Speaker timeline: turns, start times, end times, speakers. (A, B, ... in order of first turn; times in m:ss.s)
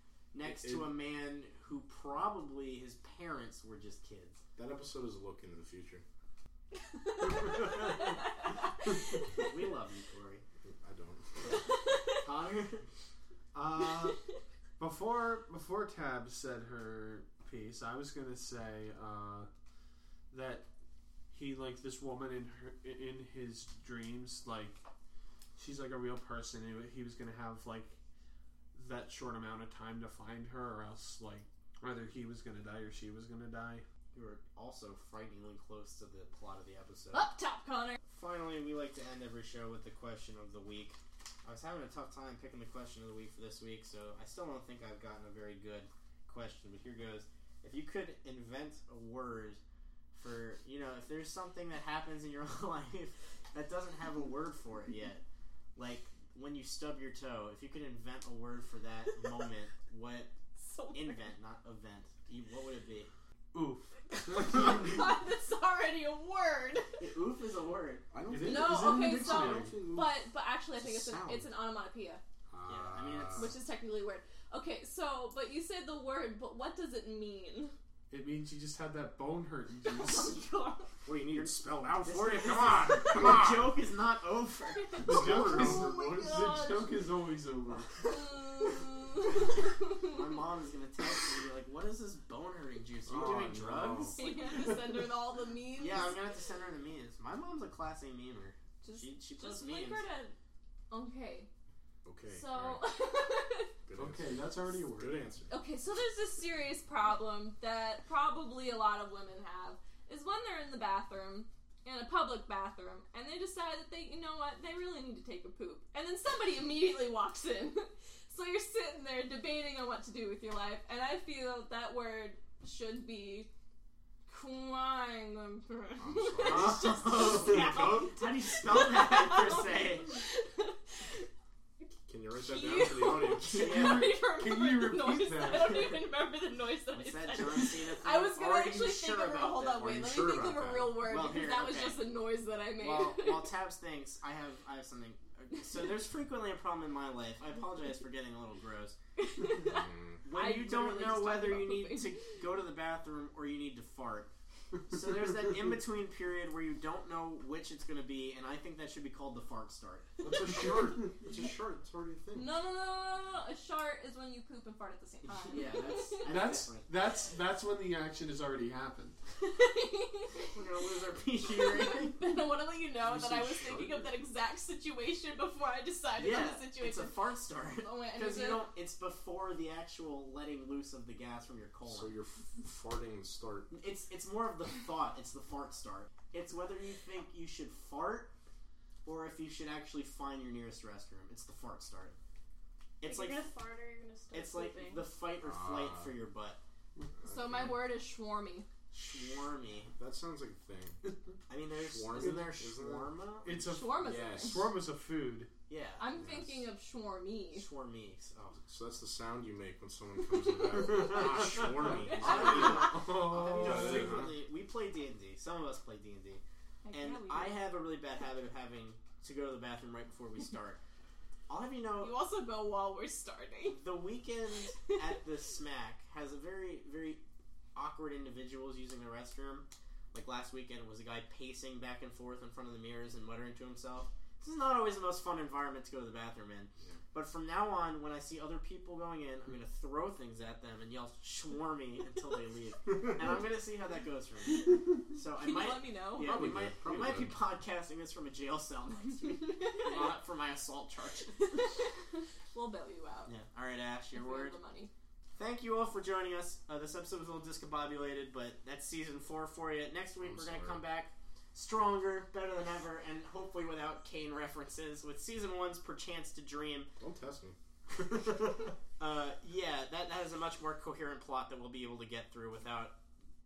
0:00.3-0:04.4 A
0:00.4-0:00.9 B
0:04.6-0:06.0 B
0:06.9-0:08.6 C
0:09.4-0:10.4 A
0:10.6-0:11.6 B
0:12.2-0:12.8 A
0:13.5-0:14.1 D
0:14.8-0:19.5 D
0:20.3-0:20.7 D
0:21.3-0:24.8 D
0:25.6-0:28.0 D
0:28.7-0:33.8 D
0:34.1-0:37.3 A
0:37.1-0:38.0 C
0:38.0-0:49.6 A
0:50.1-0:55.2 A
0:55.8-1:00.3 A
1:00.5-1:01.2 C
1:00.9-1:03.1 A
1:03.5-1:04.6 D
1:04.1-1:07.0 C
1:07.0-1:08.0 A
1:08.1-1:10.2 B
1:08.3-1:09.8 D
1:08.4-1:12.2 C
1:10.7-1:11.5 B
1:12.5-1:13.5 B
1:12.6-1:13.5 A
1:13.3-1:17.7 C
1:18.1-1:20.4 D
1:19.8-1:20.9 C
1:21.0-1:23.8 B
1:21.3-1:25.1 A
1:24.9-1:26.9 C
1:25.0-1:26.6 B
1:25.0-1:28.0 D
1:28.0-1:30.2 C
1:30.0-1:34.3 A
1:33.1-1:34.2 B
1:33.9-1:36.3 C
1:35.8-1:40.0 A
1:38.8-1:40.4 C
1:40.9-1:41.5 C
1:42.0-1:42.8 B
1:42.3-1:43.7 C
1:43.8-1:45.5 B
1:43.9-1:45.2 D
1:45.5-2:03.5 C
2:04.3-2:11.2 C
2:06.0-2:08.2 B
2:06.4-2:10.1 A
2:12.1-2:13.7 B
2:12.4-2:23.5 C
2:13.4-2:16.1 D
2:13.5-2:14.0 A
2:16.9-2:20.0 A
2:19.8-2:21.1 B
2:21.0-2:22.1 A
2:22.8-2:29.0 A
2:29.2-2:32.2 C
2:29.6-2:30.2 B
2:30.2-2:34.3 A
2:34.9-2:40.1 A
2:40.2-2:42.5 B
2:40.2-2:41.1 D
2:42.3-2:46.2 C
2:45.2-2:46.9 A
2:46.2-2:49.2 D
2:49.5-2:50.5 C
2:50.5-2:52.2 A
2:51.4-2:57.2 C
2:53.0-2:54.2 B
2:56.2-3:02.1 A
2:57.7-2:58.6 C
3:01.8-3:03.7 B
3:03.7-3:08.3 A
3:09.0-3:12.2 A
3:13.0-3:13.5 A
3:13.0-3:15.0 E
3:14.3-3:16.6 A
3:15.4-3:16.1 B
3:17.2-3:17.8 B
3:17.3-3:18.7 C
3:18.9-3:19.9 A
3:20.0-3:21.0 B
3:21.5-3:23.6 A
3:21.7-3:23.1 B
3:22.1-3:22.5 D
3:23.4-3:25.5 D
3:23.6-3:24.6 C
3:24.0-3:24.7 B
3:25.7-3:26.0 A
3:26.0-3:27.7 C
3:26.1-3:26.7 B
3:27.5-3:28.6 A
3:28.6-3:34.3 B
3:30.9-3:40.8 A
3:31.8-3:34.3 D
3:32.2-3:32.7 C
3:36.8-3:37.6 C
3:41.5-3:42.1 A
3:42.0-3:43.8 C
3:43.6-3:47.2 A
3:47.7-4:11.6 A
4:05.4-4:06.5 C
4:06.2-4:07.4 B
4:09.5-4:10.1 C
4:11.4-4:11.9 C
4:12.5-4:13.3 C
4:13.2-4:14.6 A
4:14.1-4:14.9 C
4:15.4-4:26.9 A
4:20.2-4:20.8 B
4:27.0-4:27.6 B
4:28.2-4:33.0 A